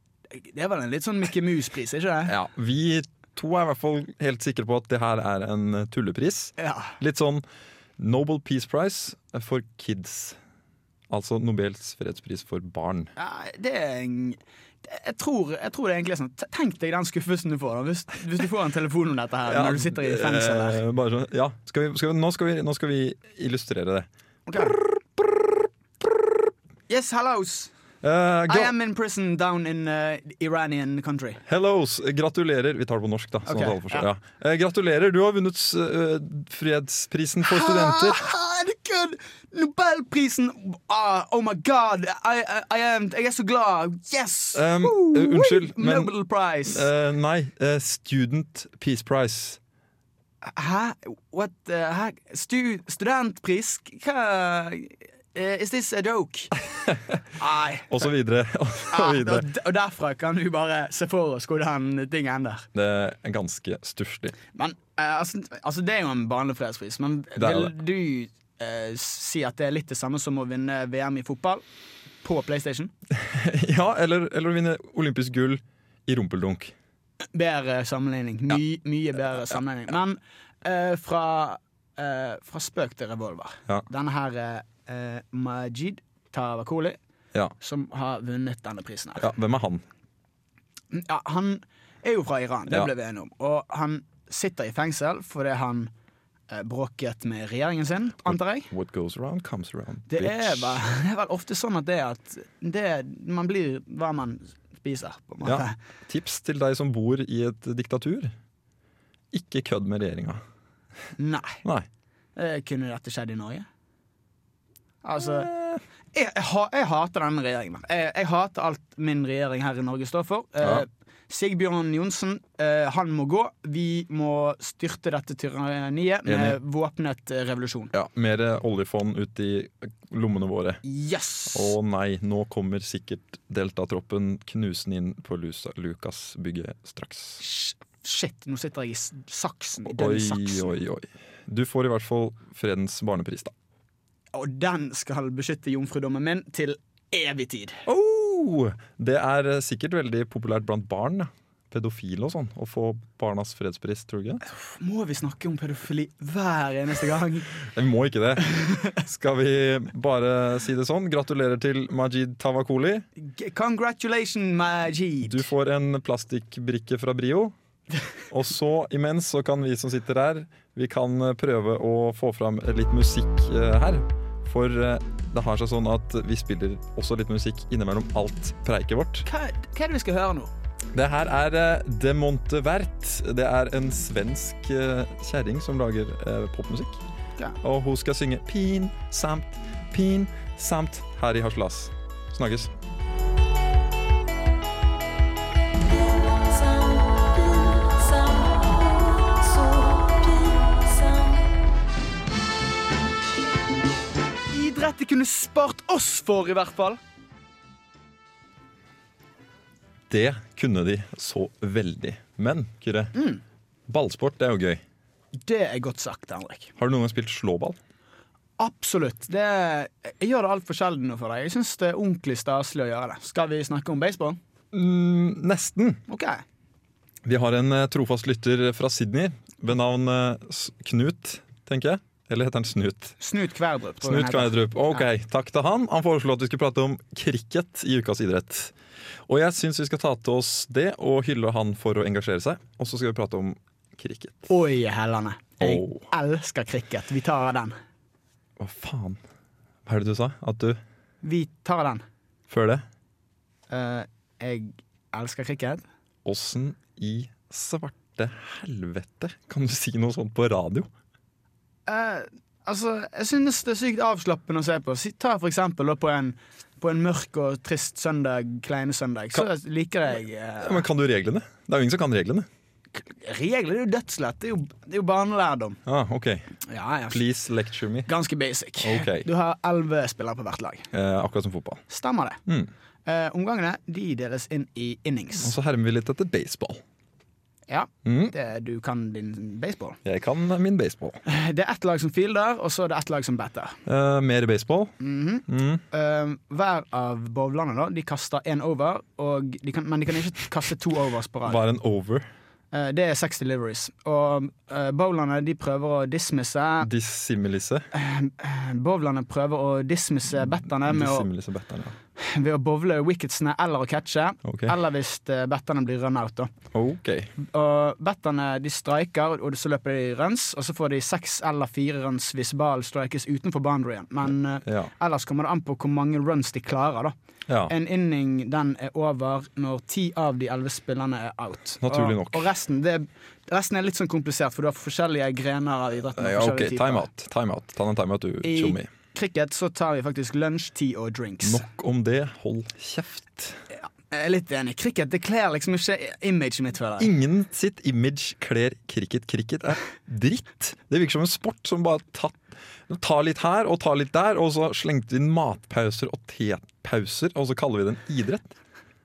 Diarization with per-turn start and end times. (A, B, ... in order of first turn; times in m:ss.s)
0:00.3-0:02.4 A
0:02.3-0:07.4 B
0:06.6-0:07.0 A
0:08.0-0:10.4 B
0:11.1-0:13.1 B
0:13.2-0:20.8 A
0:19.5-0:25.5 B
0:24.5-0:24.8 A
0:26.9-0:27.7 A
0:28.0-0:28.7 B
0:28.5-0:31.4 A
0:31.5-0:38.3 B
0:33.5-0:34.1 A
0:37.4-0:46.9 A
0:44.6-0:46.1 B
0:46.7-0:49.6 B
0:50.4-0:56.5 A
0:56.9-0:57.2 B
0:57.4-0:58.1 A
0:57.9-0:59.5 B
0:58.9-1:02.7 A
1:02.8-1:04.4 B
1:04.6-1:11.6 A
1:07.4-1:07.7 B
1:12.2-1:12.9 A
1:13.1-1:16.7 B
1:17.3-1:27.0 A
1:27.6-1:29.3 A
1:29.2-1:29.8 B
1:30.9-1:35.9 A
1:36.5-1:38.7 A
1:38.3-1:40.8 B
1:40.1-1:45.8 A
1:45.4-1:48.3 B
1:49.3-1:50.4 B
1:51.2-1:51.6 A
1:52.4-1:53.7 A
1:55.0-1:55.5 A
1:55.2-1:55.8 B
1:56.1-2:07.9 A
2:06.3-2:06.6 B
2:07.9-2:10.8 B
2:10.8-2:11.8 A
2:11.5-2:17.4 B
2:17.4-2:20.8 A
2:19.8-2:23.5 B
2:24.3-2:27.8 A
2:27.9-2:34.4 B
2:34.4-2:37.5 A
2:37.7-2:43.0 B
2:38.5-2:39.0 A
2:43.2-2:45.5 A
2:45.2-2:47.6 B
2:48.3-2:59.3 B
2:59.2-3:00.5 A
3:00.9-3:07.0 B
3:07.6-3:12.7 B
3:16.1-3:21.4 A
3:24.5-3:27.0 A
3:30.1-3:33.1 B
3:33.1-3:33.4 A
3:33.9-3:34.8 B
3:35.4-3:36.7 A
3:36.8-3:37.8 B
3:38.6-3:44.4 A
3:44.7-3:46.0 B
3:46.1-3:46.4 A
3:47.2-3:53.1 B
3:53.2-3:55.0 A
3:54.0-3:58.7 B
3:59.3-4:04.5 B
4:04.5-4:07.8 A
4:05.6-4:06.1 B
4:08.6-4:09.2 B
4:09.9-4:10.8 B
4:11.2-4:12.0 A
4:12.5-4:12.8 B
4:13.7-4:15.8 A
4:16.2-4:20.9 B
4:21.9-4:30.8 A
4:30.6-4:32.5 B
4:32.9-4:35.8 A
4:35.9-4:36.6 B
4:36.6-4:37.2 A
4:37.1-4:38.1 B
4:38.1-4:40.9 A
4:38.8-4:39.3 B
4:40.9-4:41.8 B
4:41.9-4:42.4 A
4:43.1-4:45.5 A
4:45.4-4:46.8 B
4:47.7-4:50.0 A
4:48.0-4:48.3 B
4:50.0-4:51.2 B
4:51.3-4:53.8 A
4:53.9-4:55.0 B
4:55.0-5:01.6 A
4:55.5-4:55.8 B
5:01.5-5:02.3 B
5:02.7-5:06.9 A
5:06.8-5:07.9 B
5:07.9-5:11.3 A
5:10.4-5:12.0 B
5:12.2-5:16.5 A
5:14.4-5:14.7 B
5:16.7-5:17.4 B
5:17.4-5:27.1 A
5:24.7-5:24.9 B
5:27.5-5:27.7 B
5:27.7-5:37.1 A
5:31.8-5:32.5 B
5:36.2-5:38.9 B
5:38.4-5:41.7 A
5:41.4-5:43.6 B
5:43.7-5:47.1 A
5:47.0-5:58.6 B